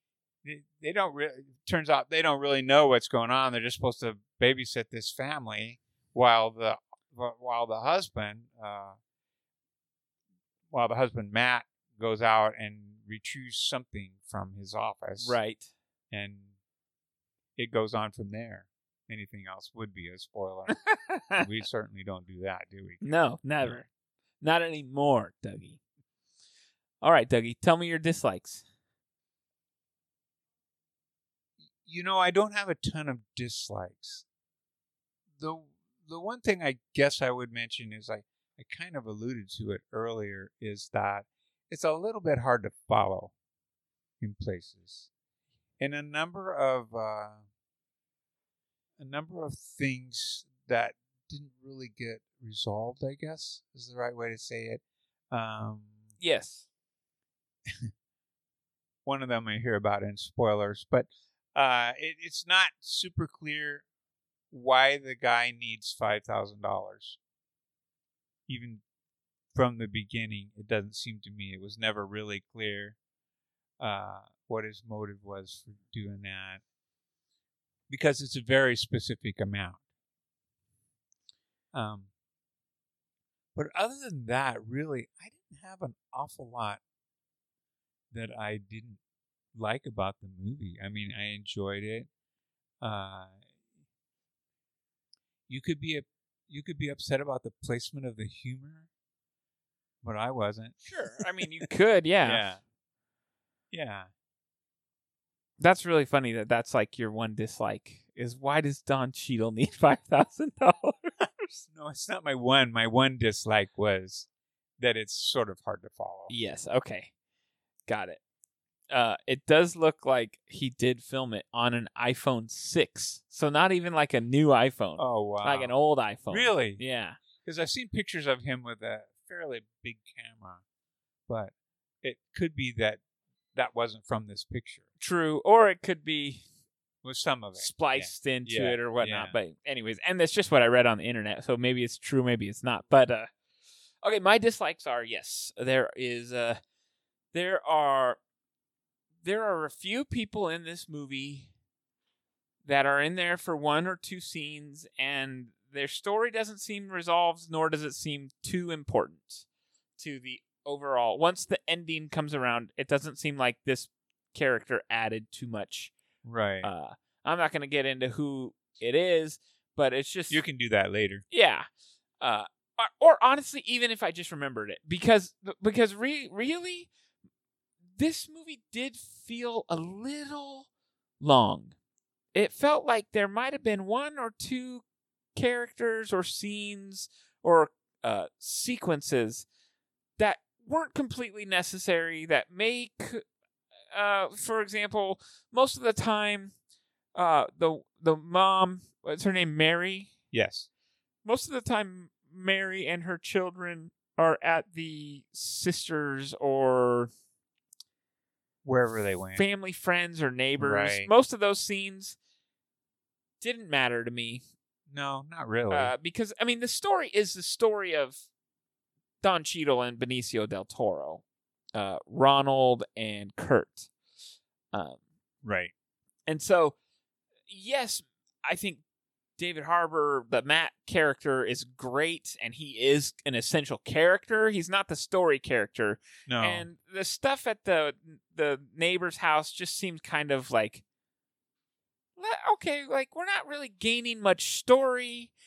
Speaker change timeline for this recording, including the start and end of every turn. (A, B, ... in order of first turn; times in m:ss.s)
0:00.4-0:09.0 A
0:10.7-0:15.4 A
0:15.2-0:15.7 B
0:16.1-0:16.5 A
0:17.6-0:20.8 A
0:20.9-0:21.4 B
0:21.3-0:23.0 A
0:23.0-0:23.9 B
0:24.4-0:25.8 B
0:27.0-0:28.6 B
0:31.8-0:34.2 A
0:35.4-0:43.3 A
0:44.2-0:45.1 A
0:45.8-0:47.4 A
0:49.0-0:56.1 A
0:56.2-0:56.7 B
0:59.0-1:03.8 A
1:04.5-1:07.2 A
1:08.5-1:08.8 A
1:09.5-1:13.0 A
1:13.8-1:16.6 A
1:17.9-1:19.8 A
1:21.7-1:22.1 A
1:23.5-1:26.8 A
1:28.1-1:29.0 A
1:29.5-1:32.1 A
1:32.8-1:33.4 A
1:35.5-1:38.9 A
1:40.0-1:41.7 A
1:40.8-1:42.5 B
1:42.2-1:42.6 A
1:43.7-1:44.1 A
1:45.6-1:51.6 B
1:51.7-1:54.3 A
1:54.8-1:56.3 A
1:56.3-1:57.1 B
1:57.9-1:58.2 B
1:58.9-2:07.2 B
2:05.0-2:05.7 A
2:06.2-2:06.8 A
2:07.4-2:10.6 A
2:11.3-2:13.0 A
2:13.5-2:14.8 A
2:15.0-2:16.4 B
2:17.0-2:19.3 A
2:17.6-2:23.3 B
2:24.0-2:26.6 B
2:27.3-2:28.2 B
2:29.2-2:31.5 B
2:32.6-2:39.4 B
2:40.0-2:45.9 B
2:46.2-2:46.7 A
2:46.6-2:50.4 B
2:50.3-2:51.2 A
2:51.3-2:51.7 B
2:52.2-2:56.9 B
2:57.9-3:00.7 B
3:01.2-3:01.7 B
3:02.3-3:04.8 B
3:05.3-3:09.4 B
3:10.2-3:13.2 B
3:13.9-3:16.5 B
3:17.1-3:20.1 B
3:20.3-3:20.7 A
3:21.2-3:27.1 B
3:28.6-3:29.4 A
3:29.3-3:32.2 B
3:30.6-3:31.1 A
3:33.4-3:34.4 B
3:34.9-3:35.9 A
3:35.7-3:38.2 B
3:39.2-3:41.2 B
3:41.7-3:43.9 B
3:44.7-3:45.0 B
3:45.4-3:45.7 A
3:46.3-3:46.8 B
3:47.5-3:48.8 B
3:49.4-4:00.8 B
3:56.3-3:56.7 A
4:02.2-4:05.3 B